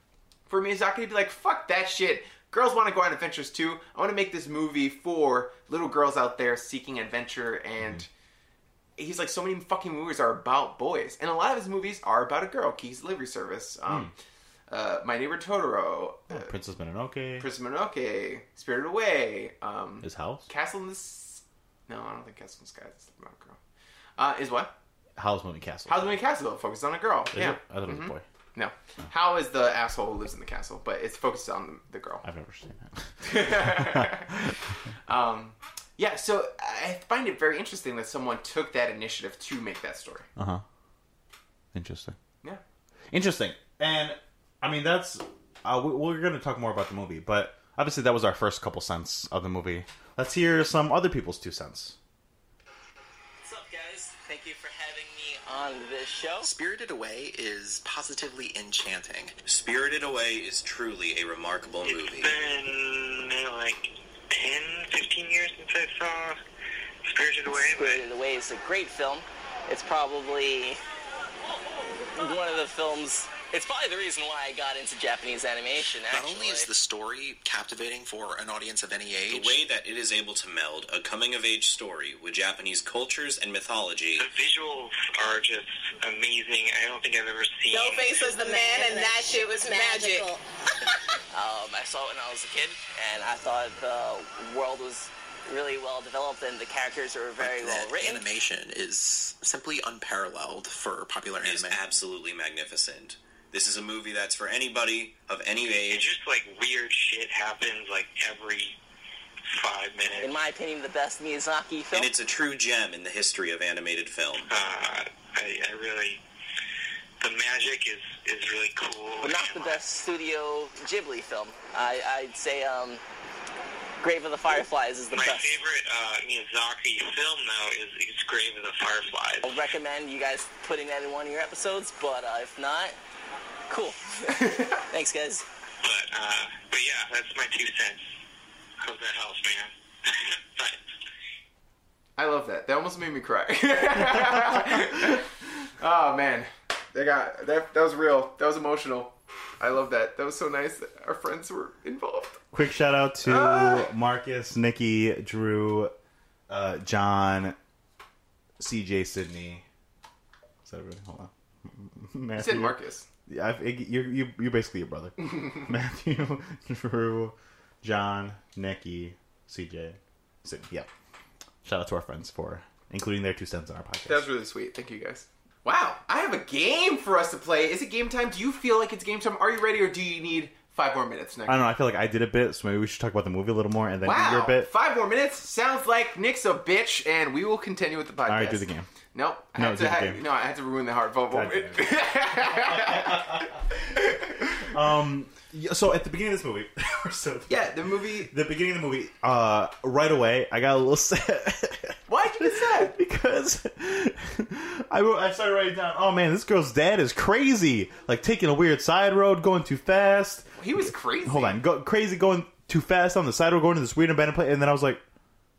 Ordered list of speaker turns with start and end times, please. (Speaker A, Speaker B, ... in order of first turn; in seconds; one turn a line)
Speaker A: 0.5-8.1
Speaker B: 7.8-8.1
Speaker A: 9.0-14.1
Speaker B: 13.9-14.1
Speaker A: 14.7-16.5
Speaker B: 16.3-17.5
Speaker A: 17.4-23.6
Speaker B: 20.0-20.5
Speaker A: 24.2-24.7
Speaker B: 25.2-26.2
Speaker A: 25.9-32.3
Speaker B: 27.3-28.2
Speaker B: 32.2-34.5
Speaker A: 33.2-34.5
Speaker A: 35.1-40.3
Speaker B: 40.4-40.6
Speaker B: 41.7-42.2
Speaker B: 43.1-52.0
Speaker C: 53.4-56.5
Speaker D: 56.4-59.4
Speaker E: 59.5-62.3
Speaker F: 61.9-66.4
Speaker F: 67.0-68.0
Speaker C: 67.8-70.8
Speaker C: 72.1-76.7
Speaker D: 76.1-79.6
Speaker E: 79.2-84.3
Speaker F: 84.2-88.3
Speaker G: 87.7-90.4
Speaker C: 91.3-98.2
Speaker D: 97.4-101.8
Speaker E: 101.4-106.1
Speaker F: 105.8-108.8
Speaker F: 109.5-110.4
Speaker C: 110.2-112.1
Speaker E: 111.9-114.5
Speaker F: 114.5-116.2
Speaker F: 117.2-119.8
Speaker C: 119.2-123.0
Speaker C: 124.0-125.5
Speaker F: 125.1-129.6
Speaker C: 129.4-132.9
Speaker C: 133.7-135.4
Speaker A: 134.3-134.8
Speaker F: 135.8-138.0
Speaker F: 138.8-140.8
Speaker A: 142.2-152.4
Speaker B: 144.2-144.8
Speaker B: 152.5-155.9
Speaker A: 153.2-153.9
Speaker B: 156.5-157.6
Speaker B: 158.6-159.7
Speaker B: 160.7-170.9
Speaker A: 162.4-163.1
Speaker B: 171.6-174.3
Speaker A: 174.1-181.6
Speaker B: 181.5-184.7
Speaker A: 184.0-194.7
Speaker B: 188.3-188.9
Speaker B: 189.6-190.2
Speaker B: 191.3-215.0
Speaker A: 197.5-198.3
Speaker A: 202.1-203.0
Speaker A: 210.6-211.6